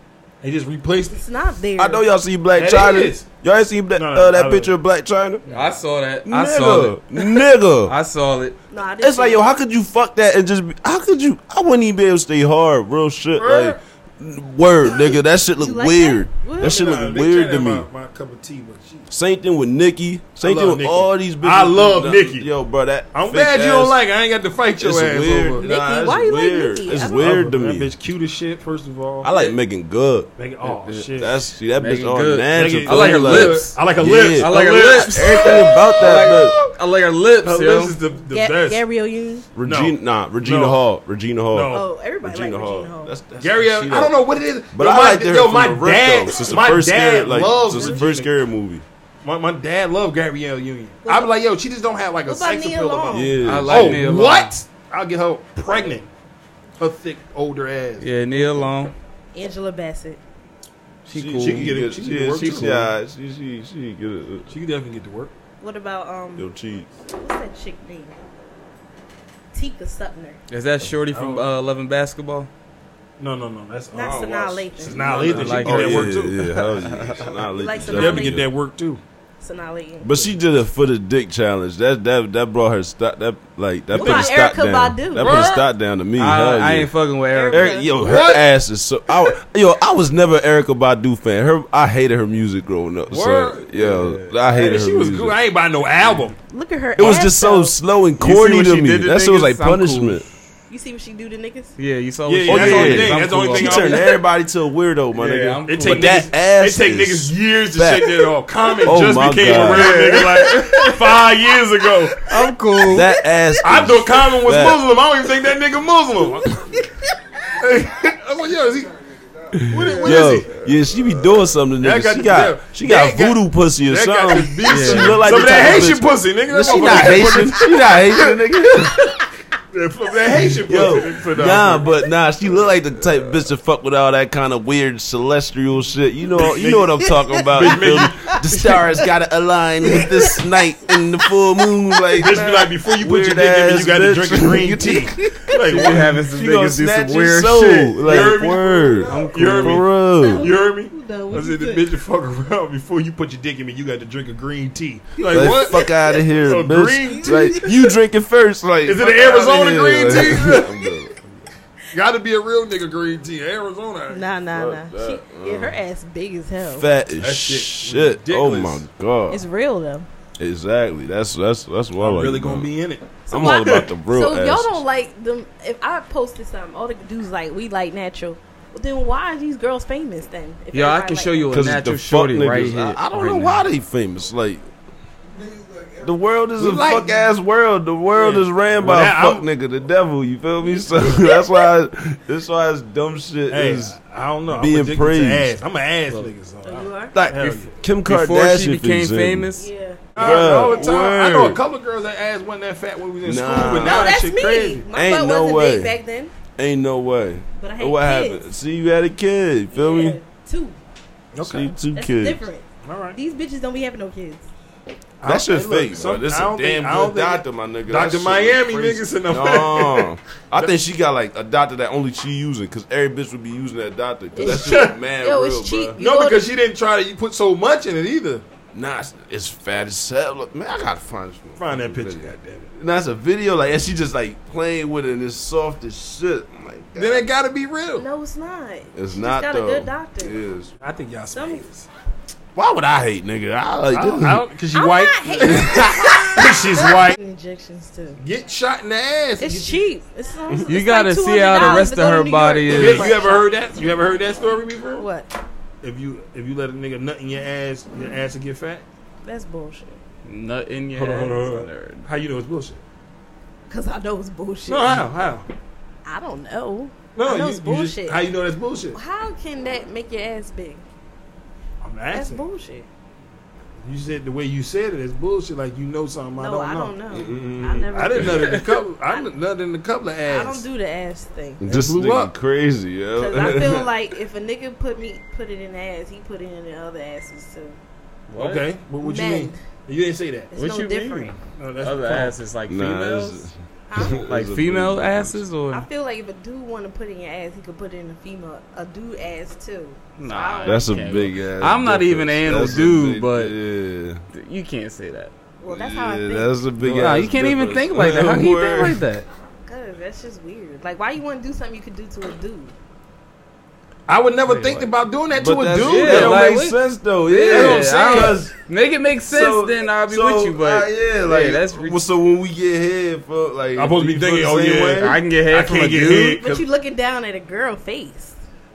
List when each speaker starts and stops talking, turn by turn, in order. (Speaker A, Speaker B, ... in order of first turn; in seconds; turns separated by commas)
Speaker A: 0.4-1.2, Speaker B: 1.1-2.1, Speaker C: 1.8-5.4, Speaker A: 2.5-3.3, Speaker A: 4.0-4.7, Speaker D: 5.5-8.6, Speaker C: 6.2-7.9, Speaker B: 8.7-9.4, Speaker C: 9.0-17.9, Speaker A: 13.4-13.8, Speaker B: 15.6-17.0, Speaker A: 16.6-19.1, Speaker C: 19.1-24.0, Speaker A: 20.4-22.5, Speaker A: 23.1-25.7, Speaker C: 24.8-27.9, Speaker B: 25.6-27.3, Speaker A: 27.0-29.3, Speaker C: 29.2-30.3, Speaker A: 30.4-31.4, Speaker D: 30.6-33.8, Speaker C: 31.1-36.5, Speaker A: 32.5-36.7, Speaker D: 34.4-38.0, Speaker A: 37.4-38.8, Speaker B: 38.3-39.5, Speaker C: 39.5-44.2, Speaker A: 39.6-40.8, Speaker A: 41.5-41.9, Speaker B: 41.7-43.1, Speaker A: 43.4-48.3, Speaker C: 44.7-48.8, Speaker B: 47.7-48.0, Speaker A: 49.2-56.1, Speaker B: 51.0-51.3, Speaker B: 52.2-53.3, Speaker C: 53.1-54.0, Speaker D: 53.5-54.5, Speaker A: 56.8-58.7, Speaker D: 58.0-58.9, Speaker B: 59.3-60.2, Speaker D: 61.1-61.8, Speaker C: 61.1-64.5, Speaker A: 61.4-62.9, Speaker D: 62.3-62.8, Speaker A: 64.5-65.3, Speaker B: 65.6-66.5, Speaker C: 66.4-66.9, Speaker B: 67.1-68.2, Speaker B: 69.5-70.4, Speaker D: 70.5-72.5, Speaker A: 71.1-71.5, Speaker A: 73.2-76.4, Speaker B: 73.9-75.5, Speaker C: 74.0-78.5, Speaker D: 75.3-76.7, Speaker B: 77.5-78.4, Speaker A: 77.9-79.0, Speaker B: 79.4-80.1, Speaker C: 80.0-86.9, Speaker B: 83.9-85.5, Speaker A: 84.0-84.3, Speaker A: 85.2-85.6, Speaker D: 86.2-87.8, Speaker B: 87.3-88.0, Speaker C: 87.5-95.4, Speaker A: 88.0-88.4, Speaker A: 93.1-93.7, Speaker D: 93.8-94.3, Speaker A: 94.5-96.4, Speaker B: 96.5-97.8, Speaker C: 97.0-100.3, Speaker D: 98.2-100.2, Speaker B: 100.7-101.8, Speaker D: 101.8-104.1, Speaker A: 102.3-104.2, Speaker C: 102.5-108.3, Speaker D: 105.2-106.2, Speaker A: 105.7-112.3, Speaker C: 108.8-110.3, Speaker D: 109.5-111.2, Speaker D: 112.2-113.1, Speaker C: 112.9-114.8, Speaker A: 113.6-116.5, Speaker B: 116.6-116.9, Speaker A: 117.6-118.9, Speaker E: 118.7-119.8, Speaker C: 119.5-129.1, Speaker A: 119.7-120.5, Speaker D: 119.9-120.3, Speaker A: 121.8-128.4, Speaker D: 124.7-125.9, Speaker A: 129.7-131.9, Speaker C: 130.3-150.6, Speaker A: 136.3-137.0, Speaker B: 137.1-138.0, Speaker A: 137.5-138.4, Speaker B: 139.9-140.4, Speaker A: 142.2-146.2, Speaker D: 145.7-148.4, Speaker A: 148.0-157.7, Speaker D: 149.1-149.8, Speaker B: 150.2-151.9, Speaker C: 155.2-161.2, Speaker B: 157.2-157.7, Speaker A: 158.8-160.8, Speaker A: 161.9-164.3, Speaker B: 164.1-166.9, Speaker C: 164.5-165.8, Speaker C: 166.7-169.4, Speaker A: 167.2-168.8, Speaker B: 169.3-170.1, Speaker C: 170.4-172.7, Speaker A: 172.0-173.8, Speaker B: 173.3-181.5, Speaker C: 173.3-174.8, Speaker D: 180.7-183.7, Speaker C: 181.5-184.6, Speaker E: 185.3-186.2, Speaker C: 186.0-194.0, Speaker A: 186.6-187.2, Speaker A: 188.2-189.5, Speaker B: 190.7-191.4, Speaker A: 193.5-197.7, Speaker C: 194.5-195.6, Speaker B: 196.6-197.2, Speaker C: 197.1-199.5, Speaker D: 198.1-199.7, Speaker B: 199.6-200.7, Speaker A: 200.2-204.8, Speaker C: 200.2-201.6, Speaker C: 203.2-204.2, Speaker B: 203.8-206.3, Speaker C: 204.9-205.9, Speaker C: 206.6-210.2, Speaker B: 207.6-208.5, Speaker B: 209.7-210.8, Speaker A: 211.3-211.7, Speaker C: 211.4-212.4, Speaker B: 211.9-214.5, Speaker A: 212.8-213.2, Speaker A: 215.2-220.7, Speaker C: 215.2-226.0, Speaker B: 224.3-226.4, Speaker A: 224.4-225.0, Speaker A: 226.0-228.4, Speaker C: 228.7-237.3, Speaker A: 231.6-232.7, Speaker A: 237.0-238.1, Speaker B: 238.0-240.4, Speaker C: 238.9-240.7, Speaker A: 240.8-241.9, Speaker B: 241.3-241.7, Speaker C: 242.6-244.4, Speaker A: 243.9-247.2, Speaker B: 244.7-248.2, Speaker C: 245.4-246.1, Speaker A: 248.2-249.8, Speaker B: 249.4-253.5, Speaker D: 250.7-253.1, Speaker A: 252.7-255.1, Speaker B: 255.0-255.3, Speaker A: 255.8-258.9, Speaker B: 259.2-260.0, Speaker D: 260.2-262.1, Speaker A: 261.0-262.8, Speaker B: 263.7-265.1, Speaker A: 264.7-265.5, Speaker B: 266.1-268.2, Speaker A: 267.1-269.0, Speaker B: 268.9-270.9, Speaker A: 271.8-272.4, Speaker B: 272.1-272.9, Speaker A: 273.8-276.9, Speaker B: 276.4-279.3, Speaker C: 277.1-278.4, Speaker A: 277.9-280.7, Speaker D: 278.4-278.6, Speaker B: 280.3-281.6, Speaker C: 281.6-283.9, Speaker A: 281.6-282.3, Speaker B: 283.2-287.8, Speaker D: 288.3-288.7, Speaker A: 288.4-290.5, Speaker B: 289.0-289.6, Speaker B: 290.5-291.4, Speaker D: 290.5-293.4, Speaker A: 291.6-292.4, Speaker C: 292.7-295.4, Speaker B: 293.9-294.3, Speaker D: 294.2-295.9, Speaker B: 295.7-301.1, Speaker D: 300.2-303.6, Speaker C: 300.6-304.2, Speaker D: 304.3-305.3, Speaker B: 305.6-306.5, Speaker C: 305.7-309.1, Speaker D: 306.8-309.3, Speaker B: 309.7-312.7, Speaker A: 314.1-316.4, Speaker D: 314.5-314.9, Speaker C: 315.3-318.5, Speaker D: 315.9-322.0, Speaker A: 317.5-318.4, Speaker C: 319.3-325.2, Speaker A: 323.8-326.6, Speaker D: 325.0-326.4, Speaker B: 326.4-328.4